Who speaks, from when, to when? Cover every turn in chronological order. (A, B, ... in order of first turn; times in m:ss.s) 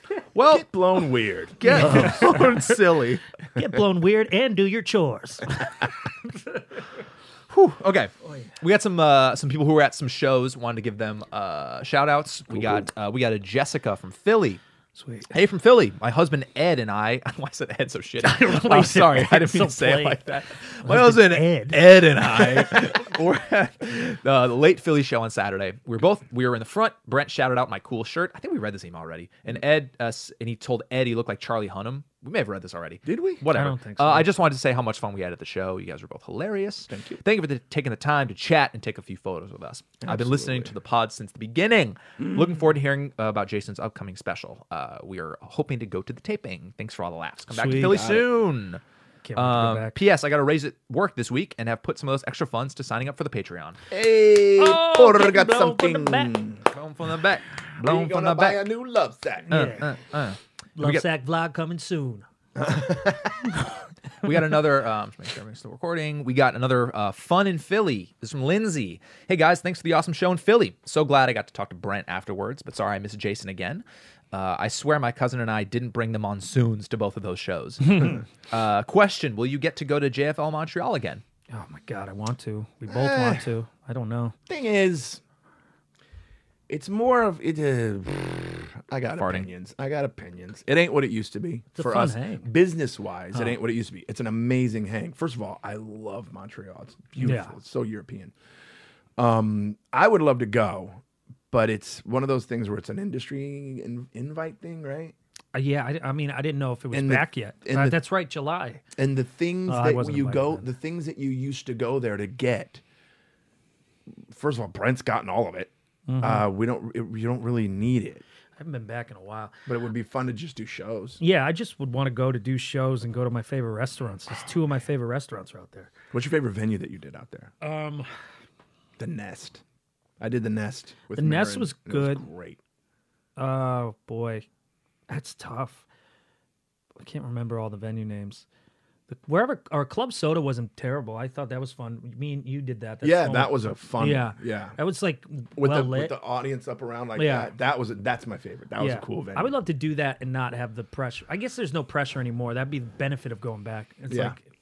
0:00.3-0:00.7 A
0:00.5-0:02.5 B
0:01.6-0:03.2 A
0:01.6-0:02.8 C
0:03.5-0:06.6 C
0:07.5-0:14.6 A
0:08.2-0:08.5 C
0:12.5-0:12.9 B
0:15.0-0:15.3 C
0:15.3-0:48.8 A
0:18.2-0:20.2 C
0:20.8-0:22.0 C
0:33.0-0:33.4 B
0:33.5-0:34.3 C
0:36.9-0:37.2 B
0:40.0-0:40.7 B
0:47.5-0:48.1 C
0:47.6-0:48.3 B
0:49.2-0:50.0 C
0:49.4-0:53.8 A
0:53.9-0:56.6 B
0:54.6-0:56.4 C
0:56.7-0:58.6 A
0:57.8-0:59.8 B
0:59.5-0:59.9 C
0:59.5-1:01.0 A
1:00.8-1:02.2 C
1:02.6-1:03.5 B
1:04.2-1:21.2 A
1:21.5-1:24.3 C
1:22.9-1:23.4 B
1:24.5-1:25.2 B
1:26.7-1:38.3 B
1:29.2-1:29.5 A
1:31.7-1:32.5 C
1:37.2-1:37.5 C
1:39.2-1:45.1 B
1:45.5-1:48.8 C
1:46.9-1:48.0 B
1:49.0-1:52.8 B
1:49.7-1:50.7 C
1:54.2-1:58.2 B
1:56.1-1:56.5 C
1:58.6-1:59.5 C
1:59.7-2:01.2 B
2:01.2-2:05.9 C
2:06.1-2:07.5 B
2:07.6-2:08.1 C
2:09.0-2:09.6 B
2:10.2-2:12.6 B
2:11.1-2:12.2 C
2:13.4-2:14.4 C
2:15.1-2:15.8 C
2:17.0-2:18.4 C
2:19.1-2:26.2 C
2:23.0-2:24.8 B
2:25.5-2:29.5 B
2:27.2-2:27.5 C
2:28.8-2:34.4 C
2:34.1-2:34.4 B